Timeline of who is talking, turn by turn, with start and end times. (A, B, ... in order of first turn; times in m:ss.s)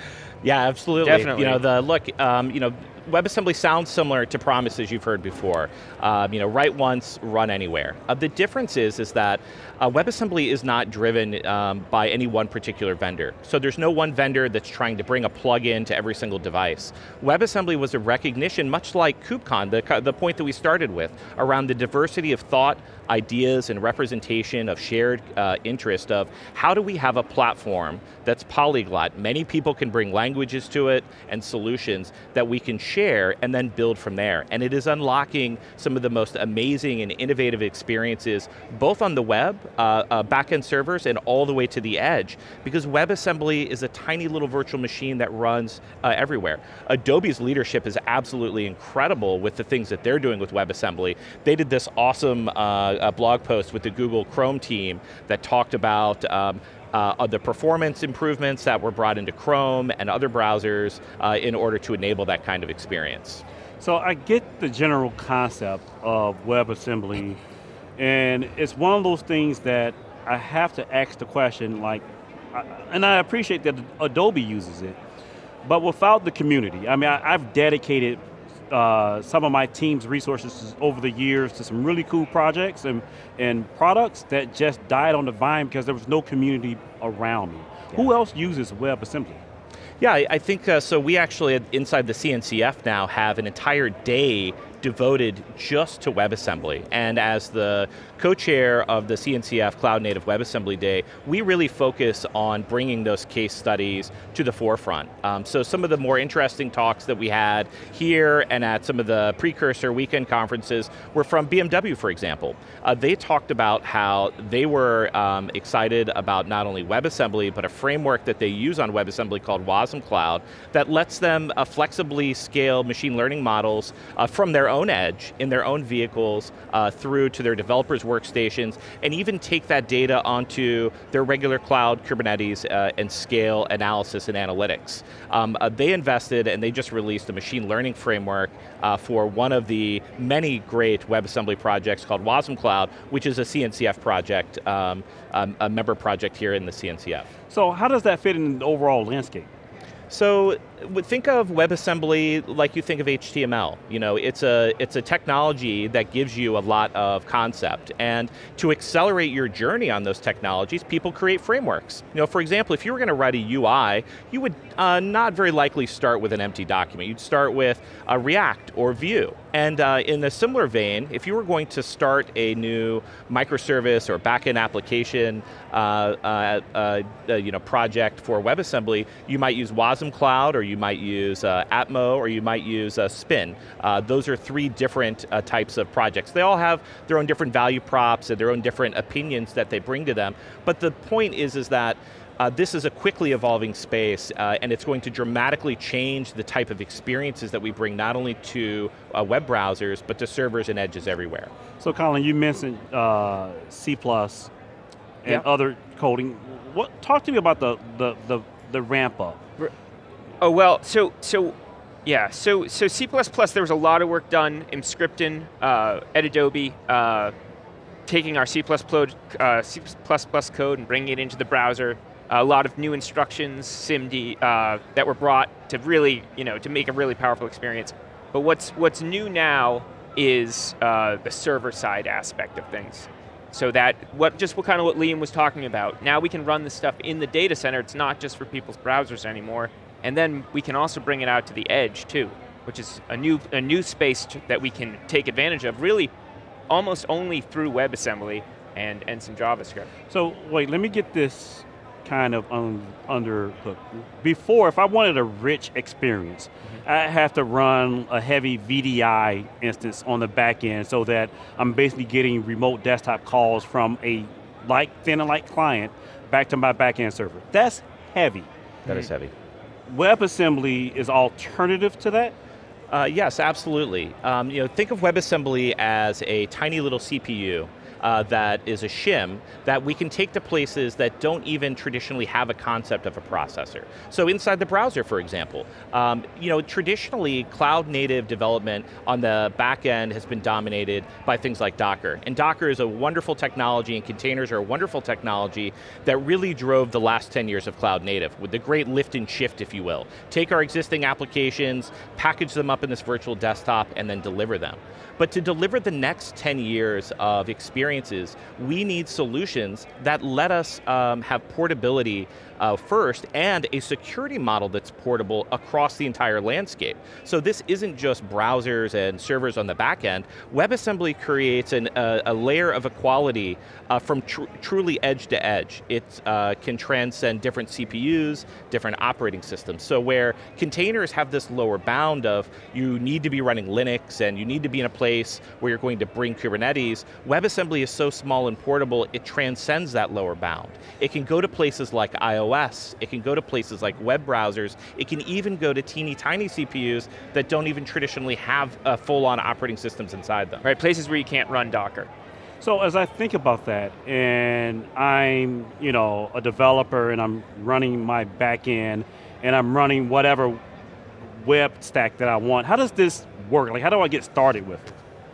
0:00.4-1:03.4 A
0:01.0-0:01.6 B
1:03.8-1:07.4 C
1:08.0-1:15.0 C
1:15.6-1:29.4 C
1:30.0-2:27.3 A
2:27.5-2:29.5 C
2:30.1-3:21.5 A
3:21.8-3:24.5 C
3:25.2-3:29.4 C
3:30.4-3:37.3 B
3:38.1-4:06.1 B
4:06.7-4:09.9 B
4:10.1-4:29.1 C
4:28.9-4:29.3 A
4:29.9-4:32.3 C
4:32.9-5:50.6 A
5:50.6-5:52.1 B
5:52.6-6:00.6 C
6:01.2-6:05.0 C